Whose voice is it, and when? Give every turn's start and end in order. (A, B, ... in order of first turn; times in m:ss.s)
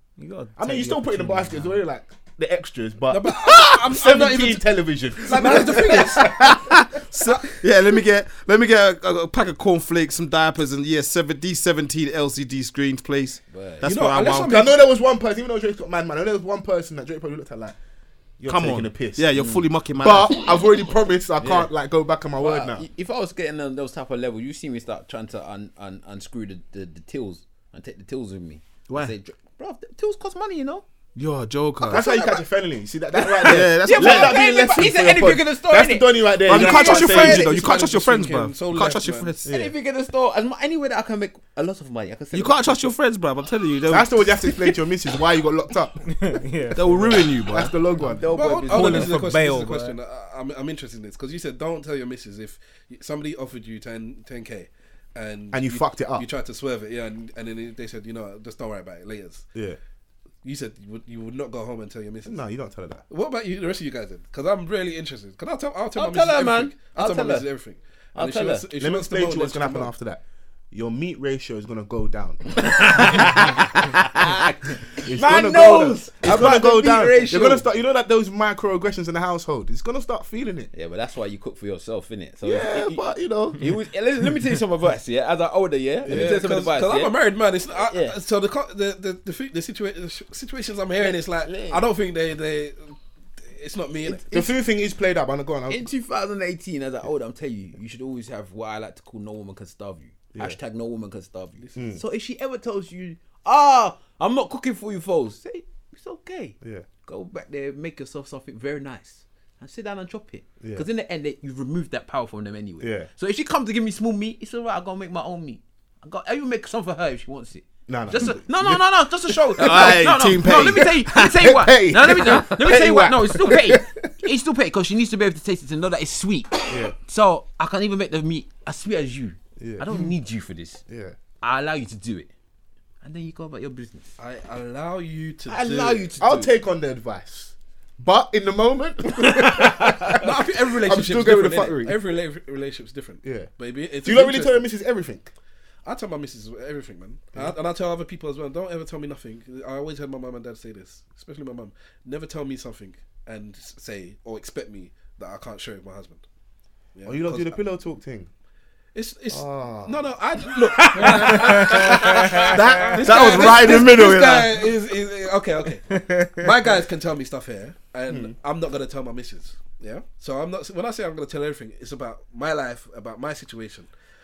0:00.2-0:01.8 A
0:00.6-0:07.4 B
0:03.1-0:04.7 C
0:05.2-0:06.3 C
0:06.2-0:14.5 D
0:13.5-0:13.9 E
0:13.8-0:14.8 C
0:14.2-0:17.8 B
0:18.4-0:19.3 B
0:18.5-0:20.5 D
0:19.3-0:19.6 E
0:20.0-0:22.9 B
0:21.4-0:21.7 E
0:22.4-0:30.8 E
0:28.9-0:29.1 D
0:31.2-0:32.0 D
0:31.8-0:37.5 B
0:31.9-0:32.4 E
0:33.1-0:37.3 E
0:33.4-0:34.4 D
0:36.5-0:39.5 D
0:36.6-0:39.4 C
0:39.4-0:39.7 B
0:39.4-0:42.9 E
0:42.3-0:44.6 D
0:43.9-0:46.0 B
0:46.1-0:47.3 A
0:46.7-0:47.7 D
0:47.4-0:48.3 B
0:48.0-0:50.0 A
0:48.0-0:49.2 E
0:48.3-0:59.5 C
0:55.5-0:56.2 B
1:00.4-1:02.4 C
1:02.2-1:03.0 B
1:03.1-1:09.9 C
1:05.9-1:07.5 E
1:08.1-1:08.7 E
1:08.7-1:14.4 B
1:12.6-1:17.6 E
1:15.0-1:20.7 B
1:20.7-1:23.0 E
1:22.4-1:23.6 B
1:23.5-1:27.2 E
1:26.0-1:26.4 B
1:26.0-1:34.4 C
1:27.9-1:28.2 E
1:31.0-1:31.8 E
1:34.1-1:34.5 E
1:34.3-1:35.8 B
1:35.7-2:10.8 E
1:41.8-1:42.0 B
1:46.6-1:46.9 B
1:52.8-1:53.1 B
1:57.9-2:04.1 B
1:59.6-2:01.0 D
2:06.7-2:06.9 B
2:09.6-2:10.0 B
2:10.9-2:11.1 B
2:11.4-2:12.3 E
2:13.0-2:14.1 E
2:14.2-2:16.1 C
2:15.5-2:16.5 E
2:16.2-2:22.0 B
2:19.2-2:20.2 E
2:20.2-2:24.6 C
2:23.2-2:23.5 B
2:24.0-2:25.3 B
2:25.8-2:36.2 C
2:36.9-2:37.6 C
2:37.0-2:38.3 B
2:38.9-2:53.9 C
2:39.3-2:40.0 B
2:40.9-2:41.8 E
2:41.0-2:42.9 A
2:41.4-2:43.9 B
2:43.0-2:44.6 D
2:48.1-2:48.3 B